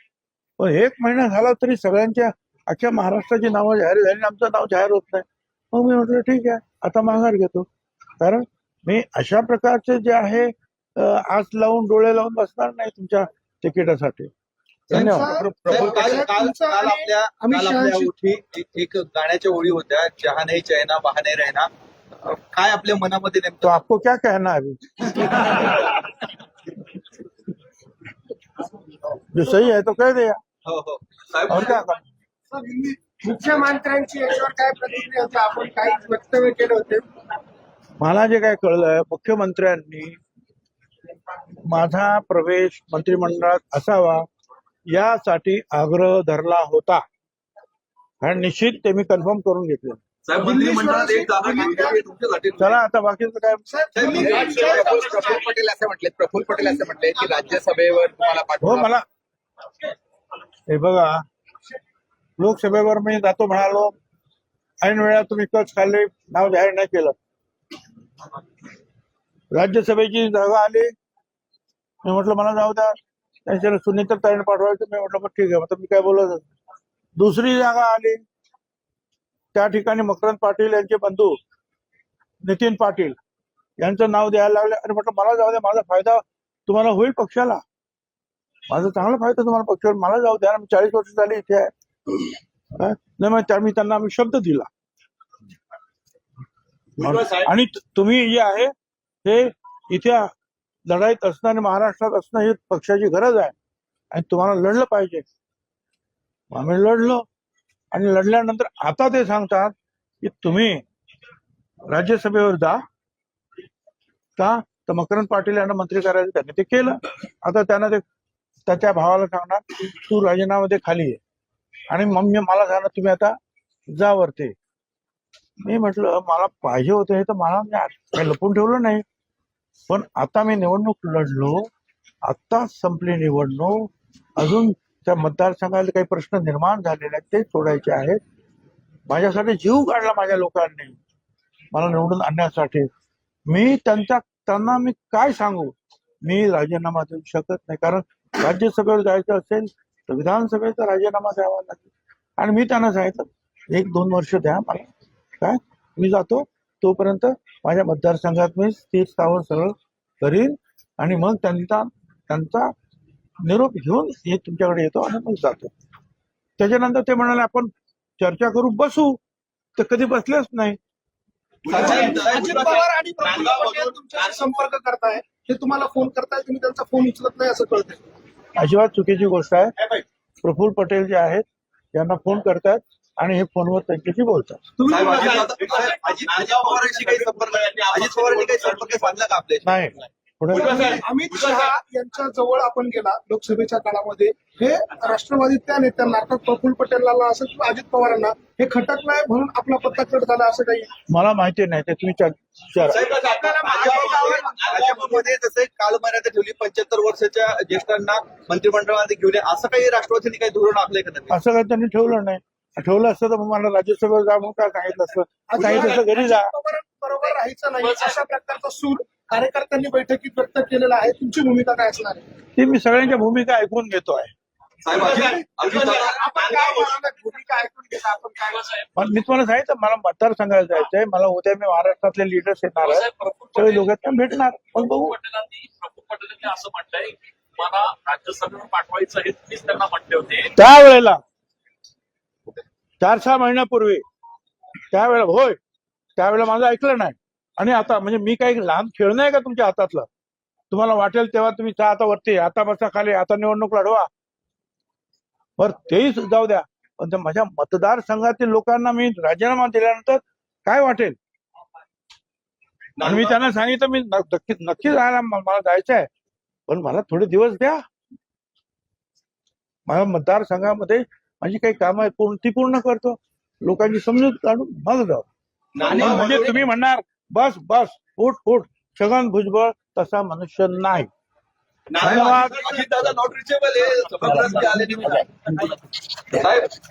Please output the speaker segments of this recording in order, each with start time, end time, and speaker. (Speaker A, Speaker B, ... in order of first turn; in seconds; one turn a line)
Speaker A: 0.6-7.7
Speaker A: 8.2-14.3
Speaker A: 14.9-16.1
Speaker B: 14.9-18.1
Speaker C: 14.9-21.7
Speaker C: 22.2-23.8
Speaker A: 23.6-25.9
Speaker A: 29.3-30.4
Speaker C: 30.7-31.8
Speaker A: 31.5-32.0
Speaker B: 32.5-37.0
Speaker A: 38.0-40.2
Speaker A: 41.6-44.3
Speaker A: 44.9-47.0
Speaker A: 48.2-50.0
Speaker C: 50.3-52.8
Speaker B: 50.4-52.0
Speaker A: 52.6-53.6
Speaker B: 53.7-55.5
Speaker C: 53.9-55.0
Speaker D: 54.1-55.5
Speaker E: 54.6-59.0
Speaker A: 58.6-59.0
Speaker A: 60.7-61.2
Speaker A: 62.4-63.9
Speaker A: 64.8-67.2
Speaker A: 69.5-70.9
Speaker A: 72.0-73.0
Speaker A: 73.5-76.5
Speaker A: 77.2-78.2
Speaker A: 79.5-81.4
Speaker A: 82.4-83.2
Speaker A: 83.8-87.6
Speaker A: 88.7-91.7
Speaker A: 92.8-94.7
Speaker D: 97.0-97.5
Speaker A: 97.0-98.7
Speaker A: 99.2-100.3
Speaker A: 100.9-103.5
Speaker A: 104.1-105.2
Speaker A: 106.5-107.2
Speaker A: 107.9-110.8
Speaker A: 111.9-112.8
Speaker A: 114.4-118.0
Speaker A: 118.7-121.2
Speaker A: 121.9-123.4
Speaker A: 123.9-124.5
Speaker A: 125.6-129.0
Speaker A: 129.9-131.7
Speaker A: 132.2-138.2
Speaker A: 139.1-141.0
Speaker A: 141.7-142.9
Speaker A: 143.5-154.9
Speaker A: 155.4-162.7
Speaker A: 163.4-165.7
Speaker A: 166.6-169.2
Speaker A: 169.8-170.8
Speaker C: 171.7-172.8
Speaker B: 171.7-178.0
Speaker D: 171.8-172.6
Speaker E: 173.2-174.3
Speaker C: 173.4-173.7
Speaker A: 178.6-184.6
Speaker D: 184.8-189.1
Speaker C: 184.8-189.7
Speaker A: 189.6-190.9
Speaker B: 190.5-200.9
Speaker D: 190.5-191.7
Speaker A: 201.1-203.1
Speaker B: 202.9-205.2
Speaker D: 202.9-205.1
Speaker C: 203.0-211.3
Speaker A: 211.3-216.5
Speaker B: 215.5-222.3
Speaker D: 217.8-218.2
Speaker A: 222.6-224.3
Speaker C: 224.8-226.2
Speaker D: 224.9-226.1
Speaker B: 224.9-228.7
Speaker D: 228.5-228.9
Speaker A: 229.0-235.2
Speaker D: 232.8-233.9
Speaker D: 234.8-240.5
Speaker A: 240.5-241.2
Speaker A: 243.0-244.0
Speaker A: 244.9-245.6
Speaker A: 246.2-250.1
Speaker A: 250.7-254.1
Speaker A: 255.6-261.2
Speaker C: 263.0-263.4
Speaker A: 263.0-266.1
Speaker A: 266.7-267.8
Speaker A: 269.9-275.3
Speaker C: 275.8-276.4
Speaker D: 275.8-276.5
Speaker A: 275.8-281.1
Speaker C: 281.9-285.2
Speaker A: 282.0-282.8
Speaker D: 283.8-285.2
Speaker E: 284.2-285.3
Speaker E: 286.3-286.7
Speaker C: 286.3-286.8